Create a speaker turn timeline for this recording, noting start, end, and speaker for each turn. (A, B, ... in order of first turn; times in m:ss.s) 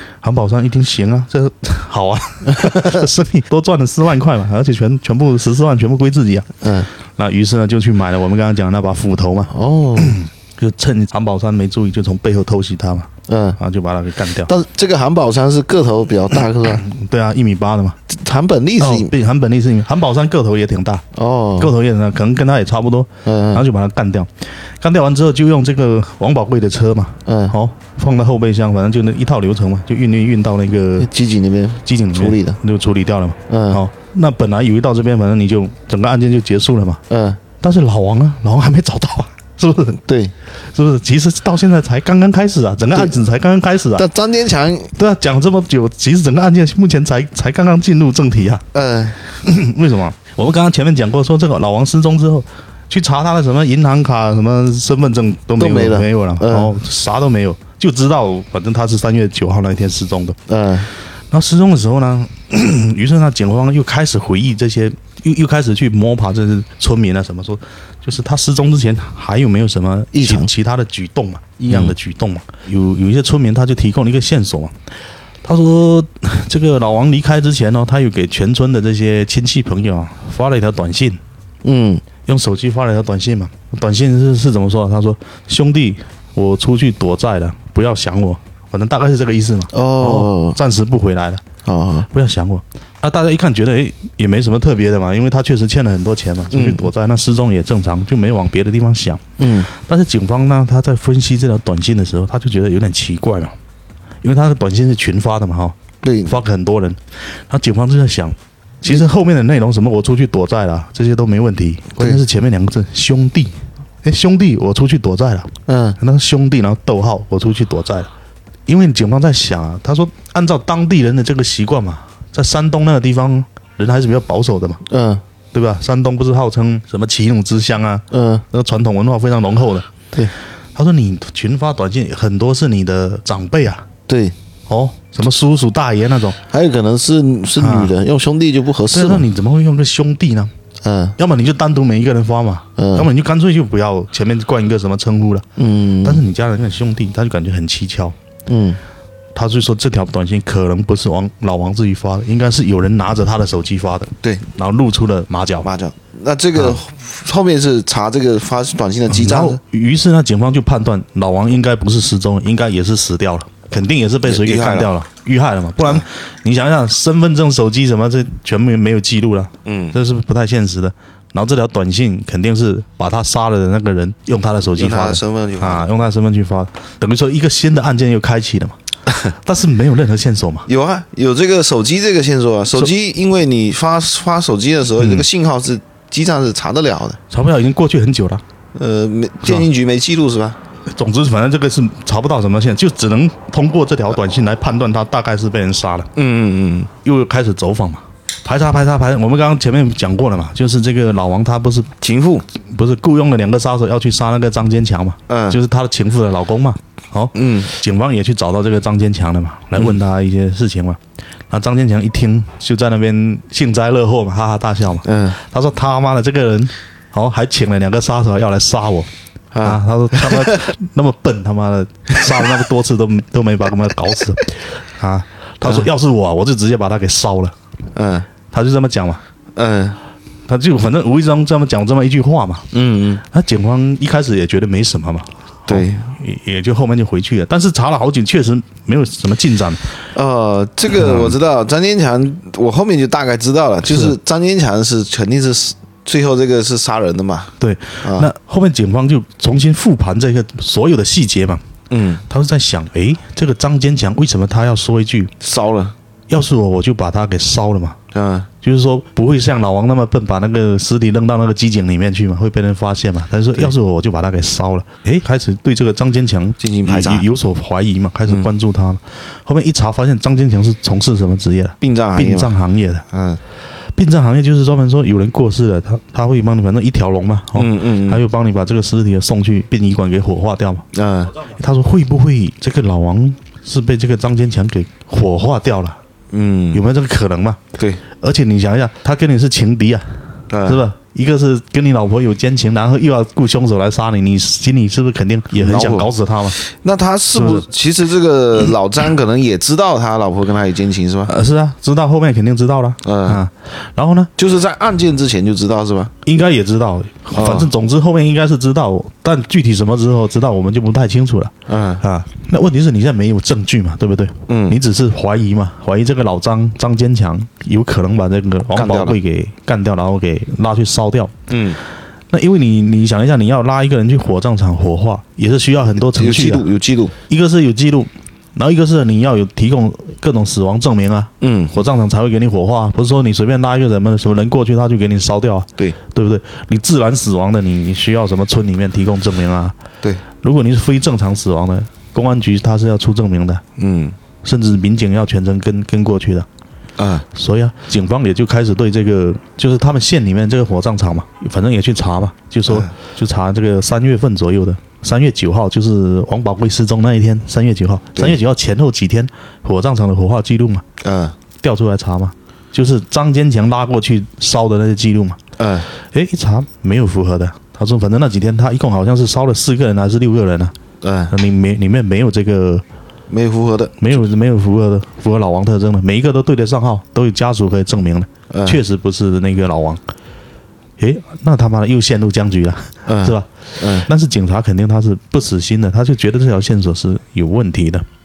0:00.2-0:06.6 A
0:02.5-0:03.0 B
0:06.6-0:06.9 B
0:07.2-0:14.5 A
0:09.5-0:10.2 B
0:13.3-0:13.6 B
0:14.5-0:16.8 B
0:16.7-0:18.0 A
0:18.1-0:19.1 B
0:18.8-0:21.0 A
0:21.1-0:21.7 B
0:21.6-0:24.3 A
0:23.2-0:23.6 B
0:24.8-0:31.1 A
0:27.3-0:27.6 B
0:31.0-0:32.6 B
0:31.8-0:37.0 A
0:33.5-0:33.8 B
0:37.1-0:37.4 B
0:37.6-0:40.0 A
0:40.0-0:40.3 B
0:40.7-0:44.1 A
0:44.0-0:45.0 B
0:45.0-0:48.6 A
0:48.7-0:49.2 B
0:49.4-1:00.4 A
0:55.6-0:56.7 B
1:00.5-1:00.9 B
1:01.3-1:14.7 A
1:10.1-1:10.5 B
1:11.7-1:12.0 B
1:15.4-1:21.2 A
1:21.6-1:22.0 B
1:22.2-1:31.4 A
1:29.7-1:30.6 B
1:31.6-1:32.1 B
1:32.1-1:43.6 A
1:36.5-1:36.9 B
1:39.4-1:39.7 B
1:44.2-1:58.1 A
1:46.0-1:46.4 B
1:55.7-1:56.0 B
1:58.7-2:04.8 A
2:04.9-2:05.2 B
2:05.5-2:09.9 A
2:08.1-2:08.4 B
2:10.8-2:13.9 A
2:14.1-2:14.4 B
2:14.7-2:16.4 A
2:16.5-2:19.3 B
2:17.6-2:17.9 A
2:18.9-2:20.5 A
2:20.8-2:21.2 B
2:21.2-2:25.5 A
2:22.8-2:23.1 B
2:25.6-2:26.2 B
2:26.0-2:28.2 A
2:28.5-2:28.8 B
2:29.4-2:35.7 A
2:35.6-2:39.6 B
2:39.1-3:00.7 A
2:44.2-2:44.9 B
2:49.6-2:50.0 B
2:54.8-2:55.9 B
3:00.7-3:07.2 B
3:05.0-3:05.2 A
3:07.3-3:08.4 A
3:08.8-3:10.6 B
3:10.9-3:16.1 A
3:16.2-3:16.9 B
3:17.0-3:21.9 A
3:22.0-3:22.4 B
3:22.6-3:31.0 A
3:25.3-3:25.6 B
3:27.4-3:27.7 B
3:31.5-3:39.1 A
3:35.0-3:35.4 B
3:39.5-3:40.6 B
3:39.6-3:47.5 A
3:42.2-3:42.5 B
3:48.0-3:48.3 B
3:48.5-3:49.2 A
3:49.6-3:50.0 B
3:50.5-3:52.7 A
3:52.7-3:53.2 B
3:53.3-3:59.9 A
3:55.7-3:56.1 B
4:00.1-4:07.5 B
4:00.9-4:01.4 A
4:03.9-4:04.2 A
4:07.6-4:11.7 A
4:08.0-4:08.3 B
4:11.9-4:12.2 B
4:12.3-4:15.3 A
4:15.4-4:16.0 B
4:16.3-4:18.0 A
4:18.1-4:18.5 B
4:18.6-4:33.0 A
4:26.6-4:27.3 B
4:31.8-4:32.6 B
4:33.1-4:33.4 B
4:34.0-4:40.8 A
4:37.6-4:38.2 B
4:40.9-4:41.3 B
4:41.4-4:46.0 A
4:46.3-4:46.8 B
4:46.7-4:47.6 A
4:47.8-4:48.0 B
4:48.2-4:56.6 A
4:50.5-4:50.8 B
4:55.6-5:01.3 B
4:57.4-4:57.7 A
5:01.3-5:04.3 A
5:03.0-5:03.4 B
5:04.4-5:06.1 B
5:06.2-5:21.4 A
5:07.3-5:07.7 B
5:11.7-5:12.0 B
5:14.5-5:14.8 B
5:18.7-5:19.2 B
5:21.5-5:21.8 B
5:22.3-5:26.7 A
5:26.1-5:27.1 B
5:27.3-5:39.8 A
5:31.4-5:31.8 B
5:40.4-5:43.6 A
5:43.8-5:44.2 B
5:44.4-5:46.5 A
5:47.0-5:47.2 B
5:47.3-6:00.8 A
6:01.0-6:01.4 B
6:01.6-6:05.4 A
6:05.6-6:05.9 B
6:06.0-6:10.7 A
6:11.0-6:11.4 B
6:11.3-6:12.8 A
6:13.3-6:14.0 B
6:14.0-6:20.0 A
6:18.5-6:18.8 B
6:21.0-6:28.1 A
6:23.1-6:24.1 B